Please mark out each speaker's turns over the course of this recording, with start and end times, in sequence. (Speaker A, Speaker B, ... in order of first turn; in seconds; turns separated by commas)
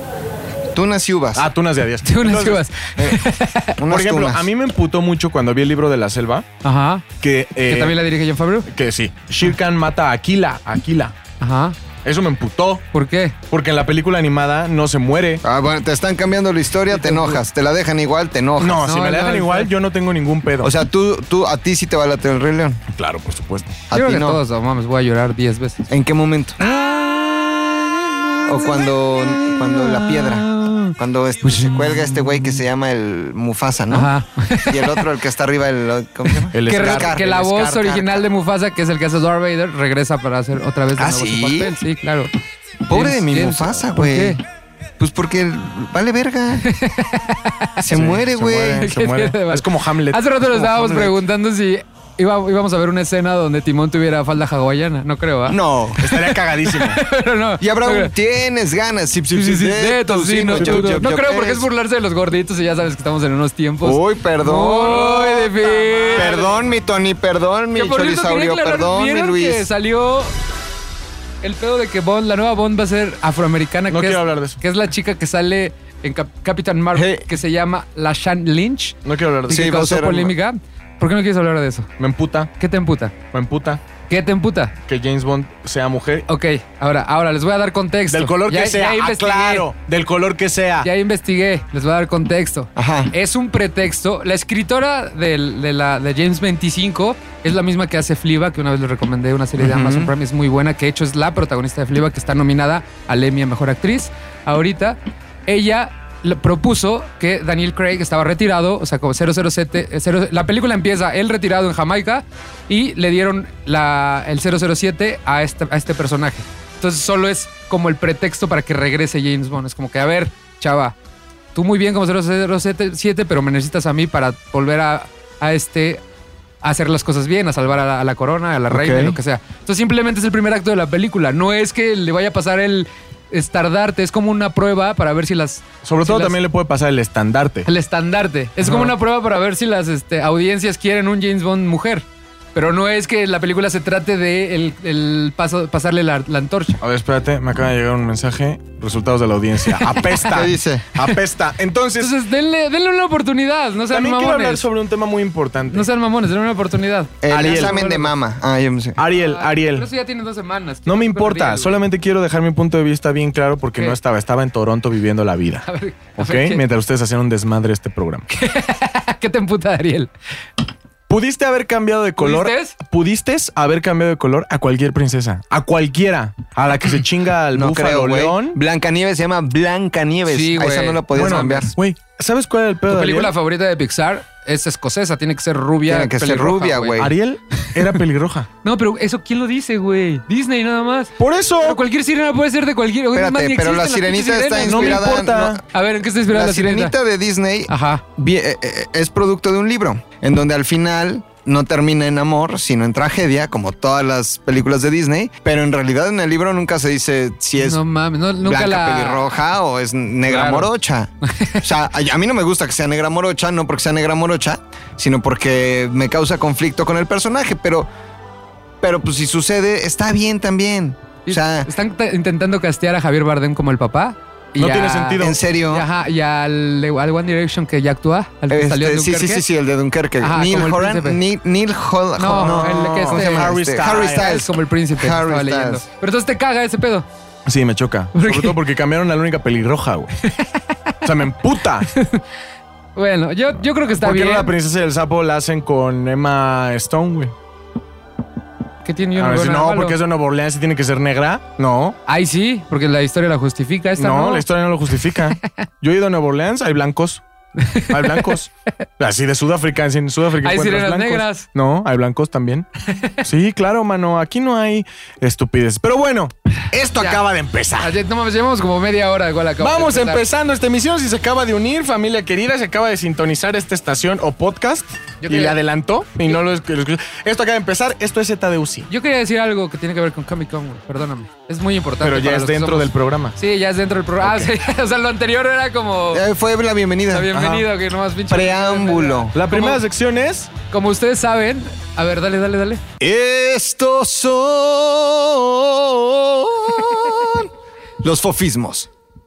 Speaker A: 0.7-1.5, Speaker B: 1.4-2.6, Speaker C: 2.0-3.8, Speaker A: 3.8-4.5, Speaker B: 3.9-6.5, Speaker C: 6.6-7.0, Speaker B: 7.2-8.0, Speaker C: 7.7-8.7, Speaker B: 8.7-11.2, Speaker C: 11.4-11.8, Speaker B: 12.0-12.8, Speaker C: 12.9-13.3, Speaker B: 13.5-15.4, Speaker A: 15.4-18.8, Speaker C: 16.9-17.4, Speaker B: 18.6-20.7, Speaker C: 18.8-19.7, Speaker A: 20.6-22.8, Speaker B: 22.9-23.8, Speaker A: 23.9-24.4, Speaker C: 23.9-25.9, Speaker A: 25.9-26.6, Speaker C: 26.6-32.6, Speaker A: 28.5-30.4, Speaker A: 31.0-34.1, Speaker C: 33.9-35.1, Speaker A: 34.7-38.2, Speaker B: 36.5-37.2, Speaker C: 36.6-42.3, Speaker A: 41.0-41.8, Speaker A: 42.9-44.4, Speaker C: 42.9-44.4, Speaker A: 45.0-46.6, Speaker C: 46.6-47.8, Speaker A: 47.8-48.9, Speaker B: 47.9-50.3, Speaker C: 48.8-58.1, Speaker A: 50.5-51.2, Speaker A: 55.5-56.0, Speaker B: 56.0-57.0, Speaker A: 57.6-61.7, Speaker C: 59.3-66.6, Speaker B: 60.5-61.1, Speaker A: 63.8-69.7, Speaker C: 67.8-70.3, Speaker C: 71.4-79.0, Speaker B: 73.9-74.6, Speaker A: 76.9-77.2, Speaker B: 79.0-79.7, Speaker A: 79.5-80.3, Speaker C: 79.5-81.9, Speaker B: 82.0-82.5, Speaker C: 82.6-83.1, Speaker B: 83.3-83.8, Speaker C: 84.1-84.7, Speaker B: 84.9-86.3, Speaker C: 86.3-89.7, Speaker B: 88.1-90.9, Speaker C: 90.8-121.0, Speaker A: 92.8-93.1, Speaker A: 99.6-100.1, Speaker C: 121.5-126.0, Speaker C: 126.6-136.4, Speaker A: 128.7-129.2, Speaker B: 135.8-137.7, Speaker C: 137.7-146.8, Speaker B: 138.6-138.9, Speaker B: 146.8-152.1, Speaker C: 149.7-150.3, Speaker A: 150.3-150.9, Speaker C: 152.0-154.7, Speaker B: 153.9-155.9, Speaker C: 155.7-158.1, Speaker A: 157.2-159.0, Speaker B: 157.3-157.8, Speaker B: 159.0-159.9, Speaker C: 159.1-161.8, Speaker B: 160.9-165.7, Speaker C: 165.7-166.6, Speaker B: 166.2-168.3, Speaker C: 168.3-170.1, Speaker B: 171.1-178.6, Speaker C: 172.2-172.8, Speaker A: 177.5-181.7, Speaker C: 180.3-181.7, Speaker B: 181.1-183.3, Speaker C: 182.9-187.1, Speaker A: 185.9-187.1, Speaker B: 187.0-188.5, Speaker C: 188.6-195.1, Speaker B: 191.2-191.8, Speaker A: 193.1-195.6, Speaker B: 194.6-195.6, Speaker C: 195.7-196.9, Speaker A: 196.3-207.8, Speaker C: 197.7-198.0, Speaker C: 207.6-209.3, Speaker A: 208.4-211.1, Speaker C: 210.3-210.7, Speaker C: 211.2-211.7, Speaker A: 211.6-217.9, Speaker A: 218.8-221.7, Speaker C: 221.3-229.4, Speaker B: 224.6-225.4, Speaker A: 225.2-225.9, Speaker A: 228.5-235.8, Speaker C: 230.2-231.2, Speaker C: 232.2-237.1, Speaker B: 232.4-234.4, Speaker B: 237.5-240.1, Speaker C: 238.2-238.6, Speaker B: 241.0-241.9, Speaker C: 241.9-242.2, Speaker C: 243.0-244.5, Speaker B: 243.9-247.3, Speaker C: 248.8-250.0, Speaker B: 249.2-252.0, Speaker C: 252.1-254.4, Speaker B: 254.0-257.2, Speaker C: 257.6-258.4, Speaker B: 257.9-262.7, Speaker C: 260.4-261.5, Speaker B: 263.2-267.9, Speaker C: 267.0-267.2, Speaker C: 267.8-270.2, Speaker B: 269.6-278.9, Speaker C: 275.2-275.6, Speaker C: 278.9-286.2, Speaker B: 282.0-283.4, Speaker B: 284.2-284.5, Speaker A: 286.1-287.6, Speaker C: 287.1-289.8, Speaker A: 288.3-289.3, Speaker B: 289.3-290.5, Speaker C: 290.7-292.8, Speaker A: 293.0-297.5, Speaker A: 298.0-298.9